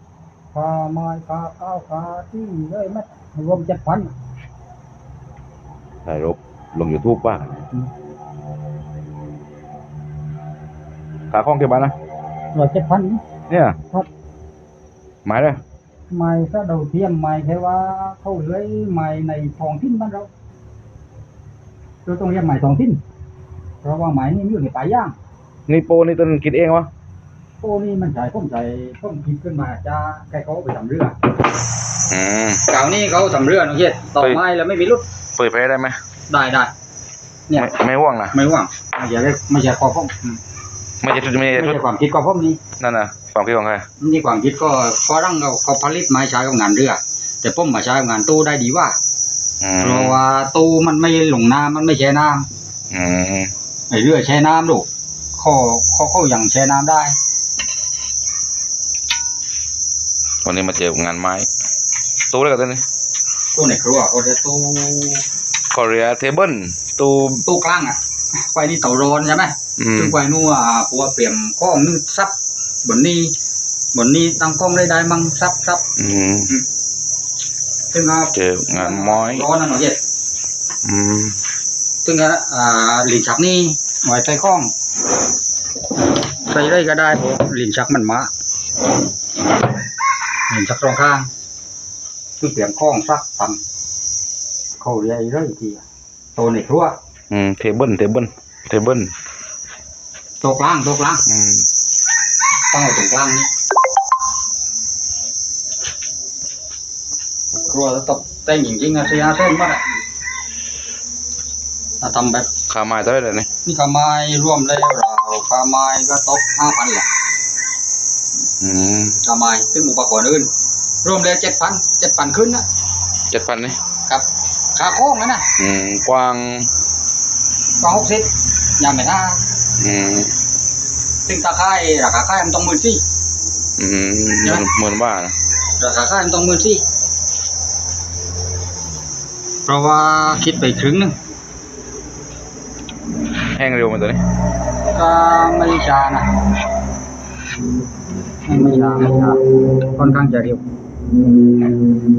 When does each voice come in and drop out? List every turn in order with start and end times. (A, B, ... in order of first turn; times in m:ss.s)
0:00.5-0:04.1 A
0:06.1-0:07.6 B
0:11.3-0:12.0 B
0:12.5-0:13.2 A
0:13.5-0:13.8 B
0:15.2-0:15.6 B
0:16.1-0:20.3 A
0:22.1-0:23.0 A
0:23.8-0:25.2 A
0:25.7-0:26.9 B
0:27.6-0:31.2 A
0:32.1-0:32.6 B
0:32.7-0:35.0 A
0:35.4-0:36.0 B
0:36.3-0:36.7 A
0:37.5-0:37.8 A
0:37.6-0:38.4 B
0:38.3-0:40.4 A
0:41.0-0:41.8 B
0:41.5-0:42.6 A
0:42.8-0:43.8 B
0:44.0-0:49.0 A
0:49.6-0:50.2 B
0:49.8-0:52.5 A
0:52.9-0:53.5 B
0:53.9-0:57.2 A
1:00.4-1:01.5 B
1:02.3-1:02.8 B
1:03.6-1:05.2 A
1:05.7-1:07.4 B
1:07.5-1:12.3 A
1:09.8-1:10.2 B
1:12.8-1:13.3 A
1:13.9-1:15.8 A
1:16.0-1:16.5 B
1:17.9-1:20.0 A
1:18.4-1:19.5 B
1:20.8-1:21.4 B
1:22.0-1:24.7 A
1:26.5-1:28.3 A
1:30.5-1:31.3 A
1:32.4-1:33.6 A
1:34.8-1:35.8 A
1:36.4-1:37.0 A
1:37.3-1:39.1 B
1:40.4-1:41.2 A
1:41.3-1:41.7 B
1:42.7-1:43.5 A
1:47.7-1:49.8 A
1:52.0-1:52.5 A
1:52.7-1:53.5 B
1:53.6-1:57.1 A
1:58.6-1:59.2 B
1:59.2-2:00.5 A
2:01.0-2:02.6 A
2:03.3-2:03.8 B
2:04.1-2:05.5 A
2:05.6-2:06.7 B
2:07.8-2:09.4 A
2:09.8-2:10.3 B
2:11.3-2:13.0 A
2:13.8-2:15.4 B
2:15.8-2:16.8 A
2:19.7-2:21.2 A
2:23.5-2:24.2 B
2:24.9-2:26.3 A
2:28.5-2:29.4 A
2:29.9-2:30.6 A